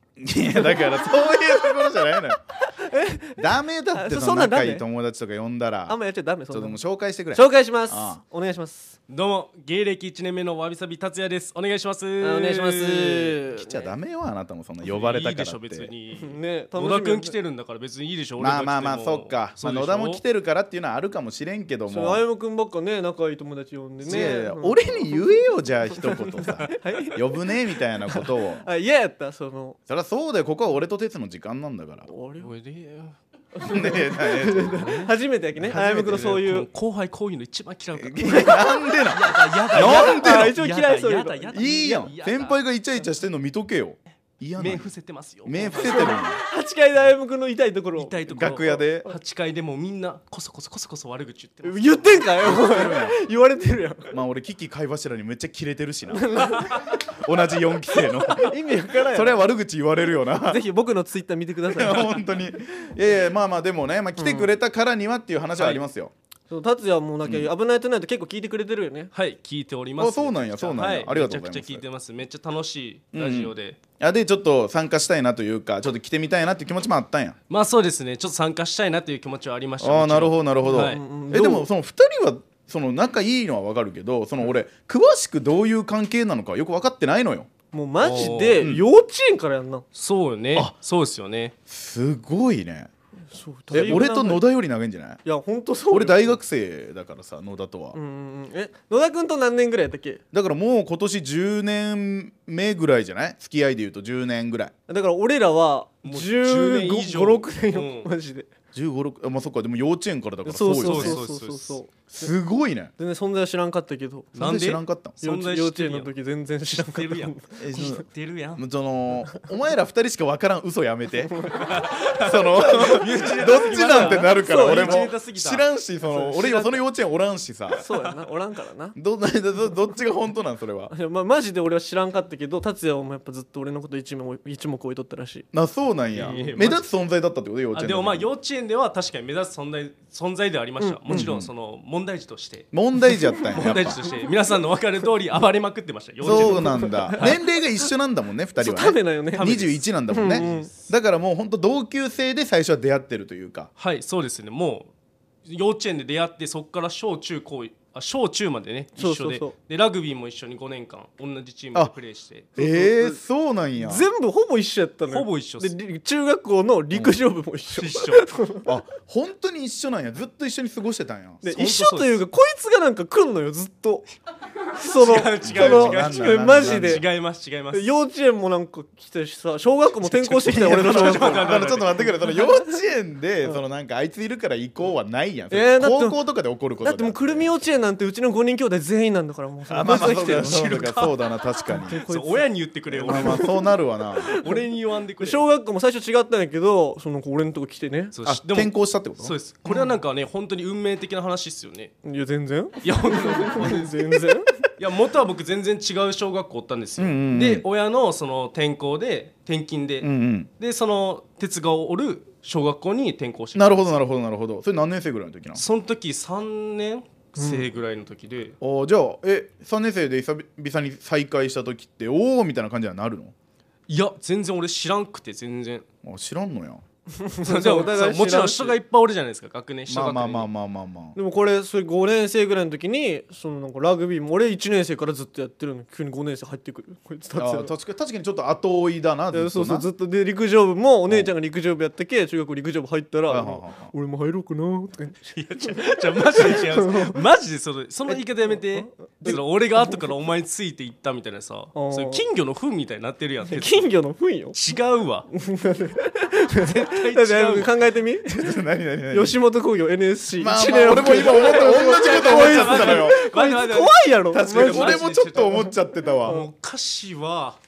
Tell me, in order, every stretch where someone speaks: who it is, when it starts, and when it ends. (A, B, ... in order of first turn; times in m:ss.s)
0:00.2-0:02.4 A
0:00.5-0:01.1 B
0:02.6-0:04.8 B
0:03.4-0:06.0 A
0:05.9-0:06.8 B
0:06.5-0:08.2 A
0:07.3-0:09.0 B
0:09.1-0:13.4 C
0:12.2-0:13.9 B
0:13.5-0:15.9 A
0:14.8-0:20.2 C
0:16.2-0:17.3 B
0:18.4-0:22.2 A
0:21.9-0:25.2 B
0:24.0-0:28.6 A
0:24.1-0:24.4 C
0:25.9-0:27.5 B
0:28.1-0:29.8 B
0:29.9-0:32.1 A
0:32.1-0:32.5 B
0:32.4-0:33.2 C
0:33.5-0:36.7 B
0:33.7-0:35.0 A
0:34.6-0:35.1 C
0:35.6-0:42.6 C
0:38.0-0:40.3 A
0:39.7-0:42.1 B
0:41.5-0:44.9 A
0:44.6-0:46.3 C
0:45.4-0:46.4 A
0:45.7-0:48.2 B
0:48.0-0:52.4 C
0:48.3-0:49.1 A
0:51.6-0:54.1 B
0:52.4-0:53.2 A
0:54.1-1:00.6 A
0:56.2-0:56.8 B
0:58.3-0:59.4 B
1:00.5-1:02.1 B
1:01.7-1:06.1 A
1:04.2-1:04.5 B
1:05.6-1:05.8 C
1:06.5-1:09.1 B
1:07.2-1:07.5 A
1:09.1-1:13.8 C
1:10.0-1:11.8 A
1:13.1-1:17.3 A
1:17.5-1:21.0 C
1:19.8-1:27.5 A
1:20.6-1:21.7 B
1:27.7-1:29.8 B
1:28.0-1:28.7 C
1:28.1-1:28.8 A
1:29.9-1:31.5 C
1:31.7-1:32.9 A
1:33.3-1:34.4 B
1:33.7-1:35.2 A
1:35.2-1:36.4 B
1:35.9-1:38.0 A
1:37.9-1:40.2 B
1:40.3-1:44.7 A
1:44.9-1:48.5 B
1:46.0-1:48.1 C
1:48.7-1:51.2 A
1:50.4-1:52.3 B
1:50.8-1:51.8 C
1:52.1-1:52.9 A
1:53.0-1:54.5 B
1:54.4-1:55.2 A
1:54.4-1:56.1 C
1:55.2-1:58.0 B
1:56.6-1:58.6 C
1:57.6-2:01.5 A
2:01.1-2:01.9 B
2:01.6-2:05.6 C
2:02.1-2:07.8 A
2:02.6-2:05.1 B
2:06.1-2:06.6 B
2:06.2-2:06.7 C
2:07.7-2:09.0 B
2:07.8-2:08.1 C
2:09.0-2:10.9 A
2:10.9-2:15.4 B
2:15.5-2:18.3 A
2:16.1-2:16.8 C
2:16.2-2:16.7 B
2:17.7-2:22.7 C
2:20.8-2:21.2 B
2:21.1-2:21.5 A
2:22.7-2:24.0 A
2:23.5-2:27.4 C
2:24.1-2:24.3 B
2:26.2-2:27.4 B
2:26.2-2:33.7 A
2:28.6-2:29.5 B
2:29.3-2:30.7 C
2:30.1-2:30.7 B
2:33.8-2:34.9 C
2:35.4-2:42.5 C
2:39.0-2:39.5 B
2:42.6-2:44.0 A
2:42.6-2:43.2 B
2:43.8-2:48.7 B
2:45.1-2:45.7 C
2:47.7-2:48.2 C
2:48.6-2:51.4 A
2:51.4-2:54.1 B
2:51.4-2:52.2 C
2:54.8-2:57.0 B
2:54.8-2:57.9 C
2:55.4-2:57.0 A
2:57.7-3:02.7 B
3:00.0-3:02.0 C
3:00.1-3:07.5 A
3:05.5-3:06.2 B
3:06.8-3:10.9 B
3:09.7-3:12.0 A
3:09.8-3:11.1 C
3:11.7-3:14.6 B
3:11.9-3:13.5 C
3:13.0-3:14.3 A
3:14.3-3:15.4 C
3:15.2-3:18.1 B
3:18.1-3:21.9 C
3:18.2-3:19.8 A
3:22.0-3:24.7 B
3:22.8-3:33.9 C
3:27.0-3:27.6 A
3:30.0-3:30.5 A
3:33.5-3:35.6 A
3:35.5-3:38.6 C
3:37.4-3:37.6 B
3:38.6-3:43.3 A
3:43.9-3:45.8 C
3:46.0-3:46.8 A
3:47.2-3:48.8 B
3:47.4-3:50.5 C
3:49.9-3:51.2 A
3:51.1-3:57.7 B
3:57.4-3:59.9 A
3:59.3-4:05.8 B
4:03.3-4:03.9 A
4:05.3-4:13.9 C
4:06.3-4:07.2 B
4:08.5-4:10.0 B
4:11.7-4:12.2 B
4:13.5-4:14.6 B
4:14.5-4:15.3 C
4:15.3-4:18.5 B
4:16.6-4:17.8 C
4:18.2-4:19.4 A
4:19.1-4:25.0 B
4:20.4-4:23.2 A
4:20.9-4:25.6 C
4:24.3-4:26.4 A
4:26.2-4:26.5 B
4:26.2-4:27.6 C